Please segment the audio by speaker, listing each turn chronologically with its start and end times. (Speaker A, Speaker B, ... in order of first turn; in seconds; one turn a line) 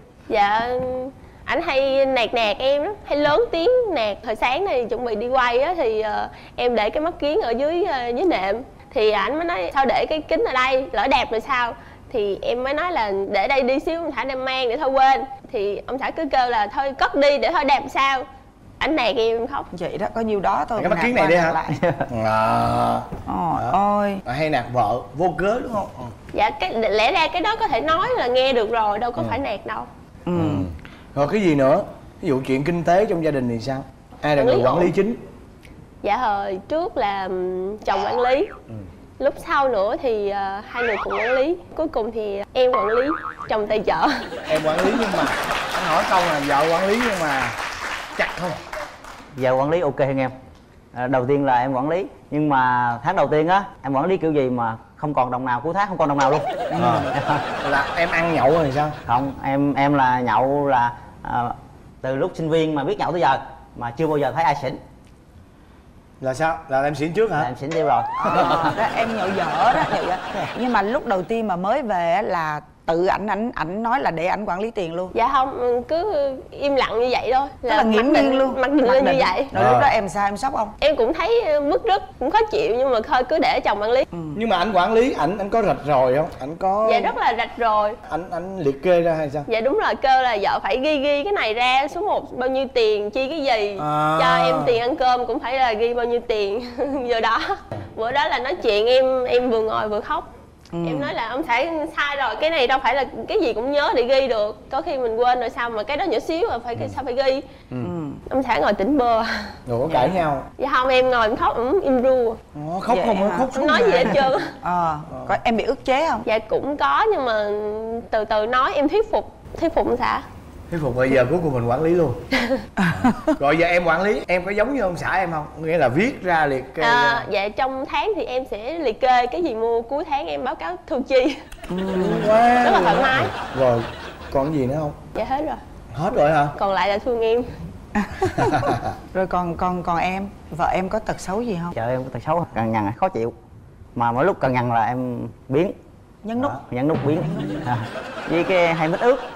Speaker A: 0.3-18.2
Speaker A: 18.8-19.7
Speaker B: 19.7-21.8
Speaker C: 20.8-21.6
Speaker D: 21.7-22.1
Speaker C: 22.1-26.1
Speaker B: 23.3-24.2
Speaker A: 26.3-29.9
Speaker B: 30.3-30.7
Speaker C: 30.4-35.2
Speaker A: 34.4-34.9
Speaker A: 36.0-38.5
Speaker A: 39.2-45.0
Speaker C: 44.5-47.6
Speaker C: 48.2-48.6
Speaker D: 49.4-50.3
Speaker D: 50.9-56.5
Speaker B: 56.7-57.1
Speaker C: 56.8-59.0
Speaker D: 57.1-57.4
Speaker D: 59.1-64.8
Speaker C: 66.2-67.5
Speaker D: 67.4-68.8
Speaker B: 68.2-75.1
Speaker C: 68.3-68.5
Speaker A: 75.1-79.6
Speaker B: 77.7-80.8
Speaker C: 79.5-79.9
Speaker A: 80.8-84.1
Speaker C: 84.3-87.2
Speaker A: 86.8-88.0
Speaker C: 88.1-89.5
Speaker A: 89.5-100.3
Speaker C: 93.8-94.8
Speaker B: 100.7-101.1
Speaker A: 100.8-107.5
Speaker B: 107.8-108.2
Speaker A: 108.3-109.5
Speaker C: 109.7-110.5
Speaker A: 110.6-112.4
Speaker C: 112.5-114.1
Speaker B: 112.9-116.2
Speaker A: 113.5-114.5
Speaker A: 116.2-120.2
Speaker C: 120.7-122.2
Speaker B: 122.8-123.1
Speaker C: 123.2-127.3
Speaker A: 126.8-131.4
Speaker B: 131.7-132.4
Speaker C: 131.9-135.0
Speaker A: 132.6-133.4
Speaker A: 135.1-135.6
Speaker C: 135.9-136.6
Speaker A: 136.5-137.5
Speaker B: 137.9-141.8
Speaker D: 141.8-143.3
Speaker D: 144.0-145.8
Speaker B: 146.2-146.6
Speaker D: 146.4-149.2